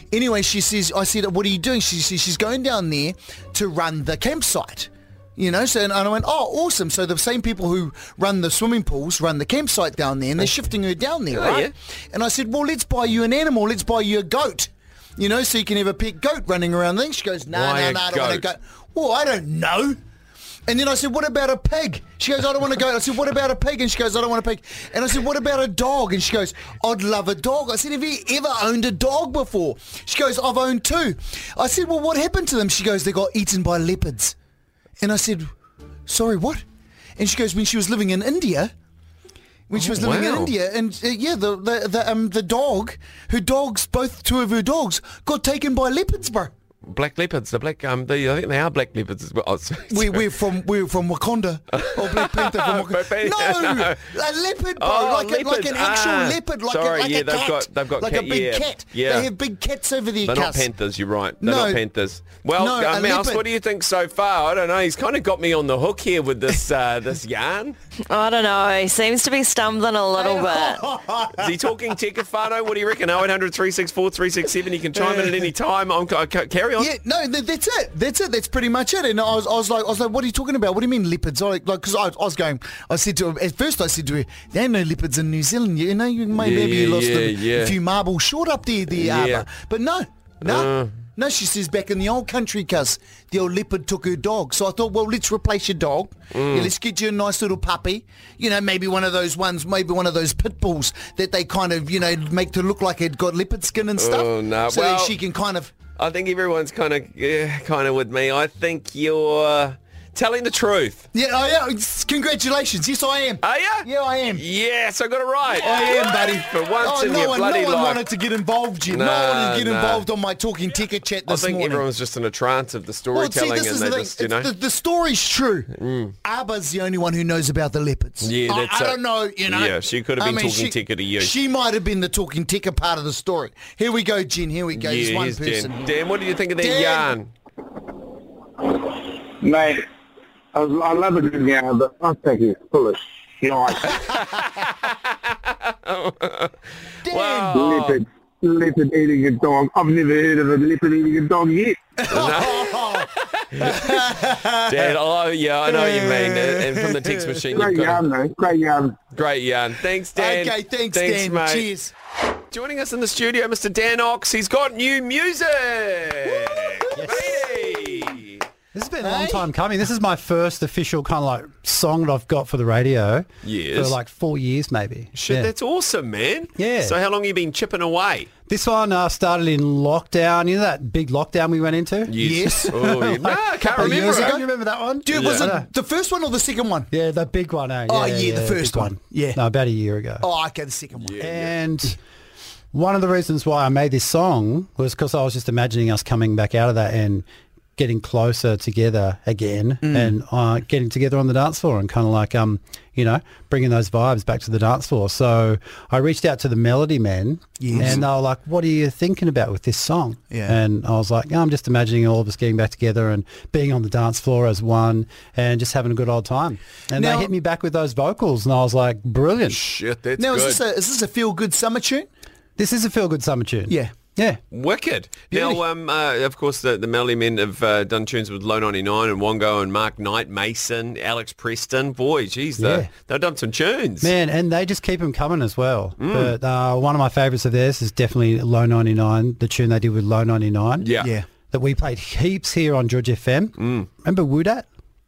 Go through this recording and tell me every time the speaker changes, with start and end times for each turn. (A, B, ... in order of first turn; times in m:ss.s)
0:00.1-0:20.0 A
0:11.3-0:11.7 B
0:17.5-0:18.4 B
0:20.7-0:34.3 A
0:35.0-0:35.5 A
0:36.1-0:36.6 A
0:37.2-0:38.7 A
0:39.7-0:46.5 A
0:39.7-0:40.5 B
0:46.9-0:50.3 B
0:49.9-1:00.7 A
0:51.7-0:54.1 B
0:54.8-0:59.3 B
1:00.2-1:07.8 B
1:01.4-1:01.8 A
1:02.5-1:03.4 A
1:08.1-1:10.8 C
1:10.1-1:11.5 A
1:11.4-1:16.9 B
1:15.0-1:15.4 A
1:16.8-1:45.7 A
1:26.3-1:27.8 B
1:28.9-1:29.5 B
1:30.4-1:30.9 B
1:36.3-1:36.7 B
1:44.0-1:45.2 B
1:46.0-1:51.1 B
1:51.1-1:54.4 A
1:53.4-1:58.0 B
1:55.5-2:01.8 A
1:58.9-2:00.1 B
2:01.2-2:04.5 B
2:03.1-2:05.7 A
2:05.7-2:06.1 B
2:06.2-2:15.9 A
2:08.2-2:11.4 B
2:14.7-2:17.3 B
2:16.6-2:17.1 A
2:19.4-2:19.8 D
2:20.5-2:24.0 D
2:24.2-2:25.0 B
2:25.8-2:26.5 B
2:27.0-2:27.6 A
2:27.0-2:28.0 B
2:27.5-2:31.8 D
2:32.0-2:34.9 A
2:32.1-2:33.9 B
2:34.6-2:38.1 B
2:35.6-2:37.4 A
2:37.5-2:39.0 D
2:39.1-2:41.7 B
2:40.1-2:41.9 A
2:42.5-2:48.4 B
2:46.6-2:47.1 A
2:47.0-2:47.6 E
2:48.7-2:55.5 E
2:49.0-2:49.5 A
2:53.4-2:54.0 B
2:55.1-2:58.3 B
2:56.6-2:57.0 E
2:58.5-3:02.2 E
3:02.1-3:04.4 B
3:02.2-3:04.4 A
3:03.8-3:05.7 E
3:05.0-3:06.9 A
3:05.1-3:05.5 B
3:06.9-3:10.3 E
3:07.9-3:09.4 A
3:10.2-3:11.2 A
3:10.9-3:11.5 B
3:11.2-3:12.0 E
3:12.7-3:17.2 E
3:17.8-3:39.6 E
3:19.8-3:20.1 A
3:27.6-3:28.0 A
3:30.3-3:30.6 A
3:36.9-3:37.3 A
3:39.4-3:40.6 B
3:40.2-3:42.1 A
3:42.6-3:44.4 E
3:43.7-3:43.9 A
3:44.5-3:54.1 B
3:45.3-3:45.6 A
3:52.6-3:52.9 E
3:54.0-4:00.9 E
3:56.0-3:56.3 B
4:00.8-4:01.1 B
4:01.0-4:01.2 A
4:01.5-4:04.6 E
4:03.6-4:03.9 B